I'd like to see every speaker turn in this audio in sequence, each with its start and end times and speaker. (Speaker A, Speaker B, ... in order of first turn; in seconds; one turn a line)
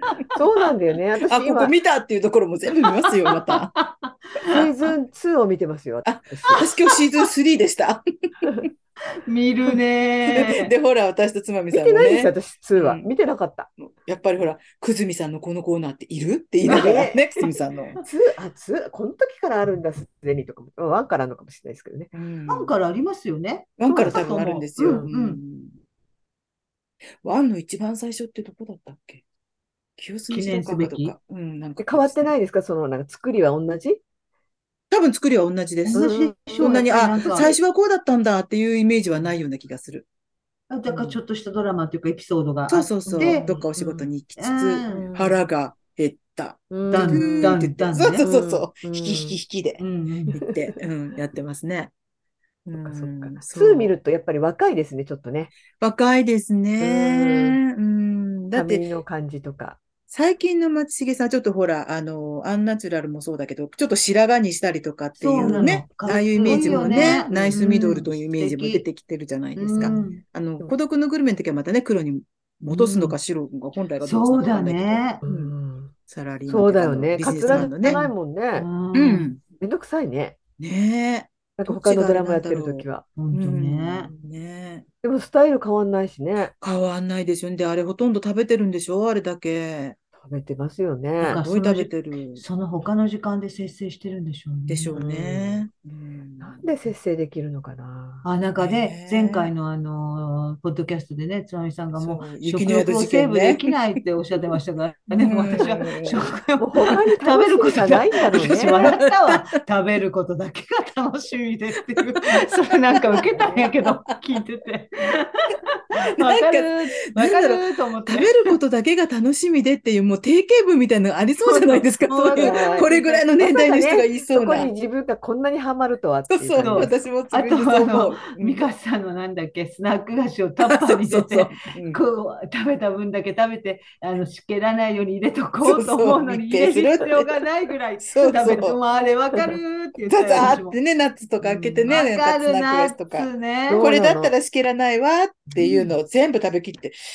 Speaker A: 0.3-1.7
Speaker B: 1.3-3.8
Speaker C: 2.9-4.6
Speaker A: 4.5-6.7
Speaker B: 6.0-8.7
Speaker C: 6.5-6.8
Speaker C: 9.2-10.7
Speaker B: 10.3-13.1
Speaker A: 11.7-13.7
Speaker B: 13.8-18.0
Speaker C: 16.6-17.5
Speaker A: 16.7-17.4
Speaker A: 18.0-22.1
Speaker B: 22.1-22.7
Speaker C: 22.5-25.4
Speaker B: 23.8-25.8
Speaker A: 23.9-25.1
Speaker B: 27.2-29.2
Speaker B: 30.0-32.3
Speaker C: 30.3-31.1
Speaker A: 31.8-34.0
Speaker B: 34.9-40.0
Speaker C: 35.9-37.5
Speaker A: 35.9-37.5
Speaker C: 40.7-43.9
Speaker B: 42.7-49.8
Speaker A: 43.0-43.7
Speaker C: 44.4-45.1
Speaker A: 44.9-45.4
Speaker A: 46.7-47.7
Speaker C: 46.9-48.2
Speaker A: 48.2-49.4
Speaker C: 49.8-50.4
Speaker A: 50.3-50.7
Speaker B: 50.3-51.9
Speaker B: 52.6-53.9
Speaker A: 52.8-55.5
Speaker B: 55.8-58.9
Speaker A: 56.8-57.6
Speaker A: 58.5-59.8
Speaker B: 60.1-75.5
Speaker C: 65.2-68.8
Speaker A: 65.4-65.7
Speaker A: 66.3-67.6
Speaker C: 69.5-70.2
Speaker C: 72.7-73.2
Speaker C: 74.0-75.2
Speaker A: 75.2-75.9
Speaker B: 76.1-78.0
Speaker A: 76.5-78.7
Speaker C: 77.3-79.3
Speaker B: 78.9-79.4
Speaker A: 79.6-80.3
Speaker B: 80.6-84.8
Speaker A: 81.6-83.0
Speaker C: 83.2-84.1
Speaker A: 85.0-86.5
Speaker B: 86.6-90.0
Speaker A: 90.2-91.4
Speaker C: 91.2-95.0
Speaker B: 91.2-92.4
Speaker B: 94.7-96.7
Speaker A: 94.9-95.6
Speaker A: 96.4-98.3
Speaker C: 98.2-118.5
Speaker B: 98.6-99.5
Speaker B: 101.9-103.7
Speaker B: 105.1-106.3
Speaker A: 106.6-108.9
Speaker B: 108.3-109.5
Speaker B: 112.3-114.0
Speaker B: 116.2-124.7
Speaker C: 121.4-123.2
Speaker A: 122.3-126.9
Speaker B: 126.3-128.6
Speaker C: 126.6-140.8
Speaker B: 130.6-132.0
Speaker B: 135.6-137.3
Speaker B: 138.0-138.8
Speaker B: 140.1-147.0
Speaker C: 141.4-143.8
Speaker A: 143.7-144.3
Speaker C: 145.5-145.9